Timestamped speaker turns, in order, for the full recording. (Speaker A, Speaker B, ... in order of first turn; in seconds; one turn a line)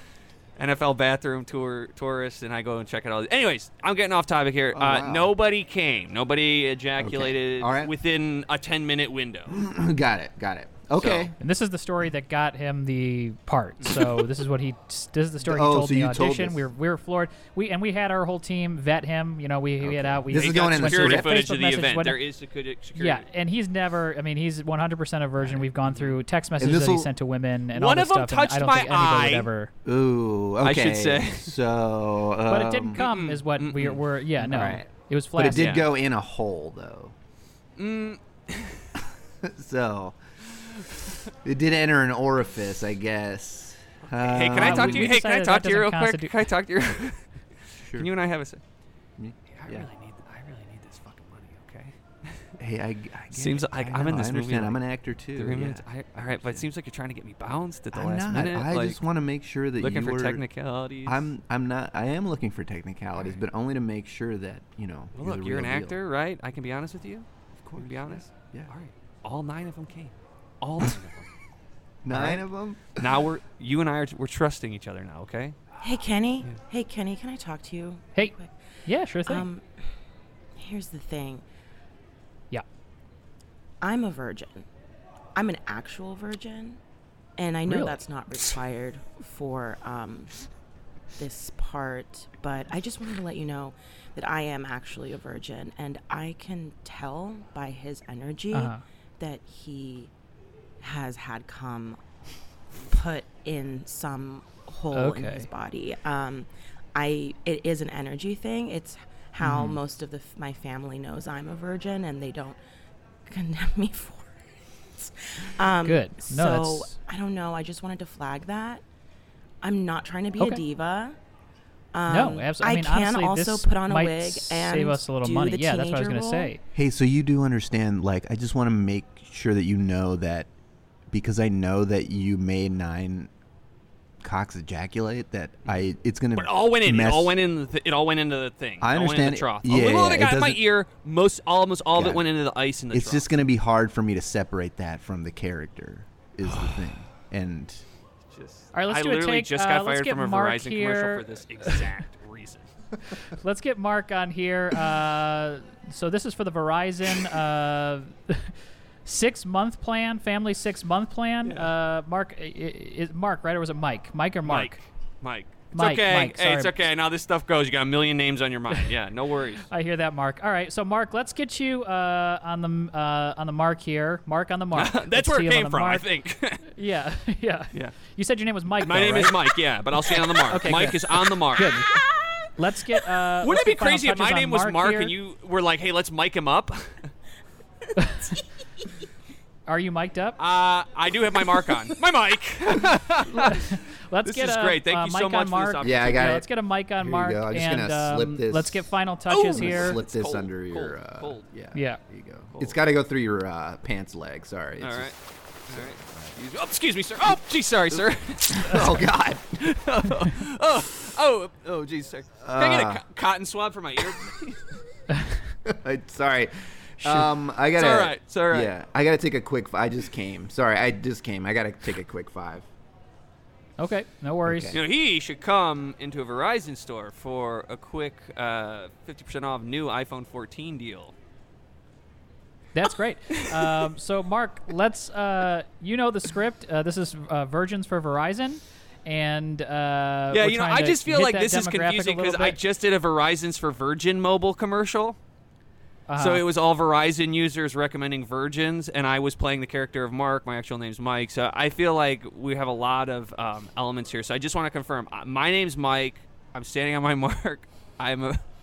Speaker A: 0.6-9.6
Speaker B: 4.7-5.3
Speaker B: 7.0-7.9
Speaker B: 9.5-11.3
Speaker A: 10.9-11.3
Speaker C: 11.4-22.2
Speaker A: 13.8-14.2
Speaker B: 15.4-16.6
Speaker B: 19.8-21.4
Speaker A: 20.3-23.2
Speaker C: 22.9-29.7
Speaker B: 25.4-25.7
Speaker B: 26.6-27.1
Speaker A: 27.7-29.5
Speaker B: 29.8-33.0
Speaker A: 30.6-31.5
Speaker C: 32.5-35.8
Speaker A: 33.0-34.0
Speaker B: 34.4-37.1
Speaker A: 35.5-35.9
Speaker A: 37.8-38.9
Speaker B: 39.4-40.2
Speaker B: 41.4-45.1
Speaker A: 44.1-47.2
Speaker C: 44.5-46.4
Speaker B: 47.8-48.1
Speaker A: 47.9-48.6
Speaker B: 49.2-49.9
Speaker A: 49.5-52.5
Speaker B: 52.6-55.8
Speaker A: 53.3-54.8
Speaker A: 55.4-59.0
Speaker B: 56.4-56.6
Speaker B: 57.9-60.4
Speaker A: 59.8-61.3
Speaker B: 61.0-66.0
Speaker A: 65.1-71.3
Speaker B: 67.5-68.7
Speaker B: 72.0-73.2
Speaker A: 72.1-72.4
Speaker A: 72.9-75.7
Speaker D: 75.8-78.5
Speaker C: 78.8-79.5
Speaker D: 79.2-79.7
Speaker D: 80.5-81.4
Speaker D: 83.8-84.7
Speaker D: 85.3-86.8
Speaker D: 87.4-90.3
Speaker C: 87.7-88.0
Speaker D: 91.2-100.1
Speaker C: 98.5-98.8
Speaker D: 100.8-102.0
Speaker D: 102.7-112.6
Speaker C: 104.9-105.5
Speaker C: 109.4-109.8
Speaker D: 113.2-114.4
Speaker D: 114.9-118.8
Speaker C: 115.8-116.9
Speaker D: 119.6-121.2
Speaker C: 120.4-120.6
Speaker D: 121.9-126.5
Speaker C: 122.1-126.6
Speaker B: 126.7-130.5
Speaker B: 131.1-133.3
Speaker B: 134.2-137.3
Speaker A: 136.3-143.3
Speaker B: 138.8-140.6
Speaker B: 141.9-142.2
Speaker B: 142.9-147.8
Speaker A: 146.5-146.8
Speaker A: 148.3-152.7
Speaker C: 148.7-151.8
Speaker C: 153.2-164.8
Speaker A: 161.4-161.7
Speaker A: 164.4-169.7
Speaker C: 165.7-166.7
Speaker C: 169.7-176.1
Speaker A: 174.7-176.7
Speaker C: 176.7-179.4
Speaker A: 178.8-181.9
Speaker C: 180.5-181.0
Speaker C: 181.5-181.9
Speaker D: 181.9-182.3
Speaker C: 182.6-185.1
Speaker A: 183.4-187.1
Speaker C: 187.9-188.3
Speaker C: 189.7-190.4
Speaker A: 190.4-196.4
Speaker C: 193.3-200.0
Speaker B: 195.8-196.5
Speaker B: 197.0-198.9
Speaker A: 199.3-201.4
Speaker B: 199.5-205.1
Speaker C: 201.7-202.0
Speaker A: 204.8-205.1
Speaker A: 205.7-209.1
Speaker B: 205.7-206.3
Speaker B: 208.5-209.6
Speaker A: 209.6-214.6
Speaker B: 212.4-213.0
Speaker B: 215.6-222.7
Speaker A: 217.0-218.7
Speaker C: 223.8-224.8
Speaker B: 224.4-224.8
Speaker A: 224.7-231.1
Speaker C: 232.7-242.6
Speaker A: 233.3-233.8
Speaker A: 240.3-245.2
Speaker C: 246.1-246.4
Speaker A: 246.2-258.4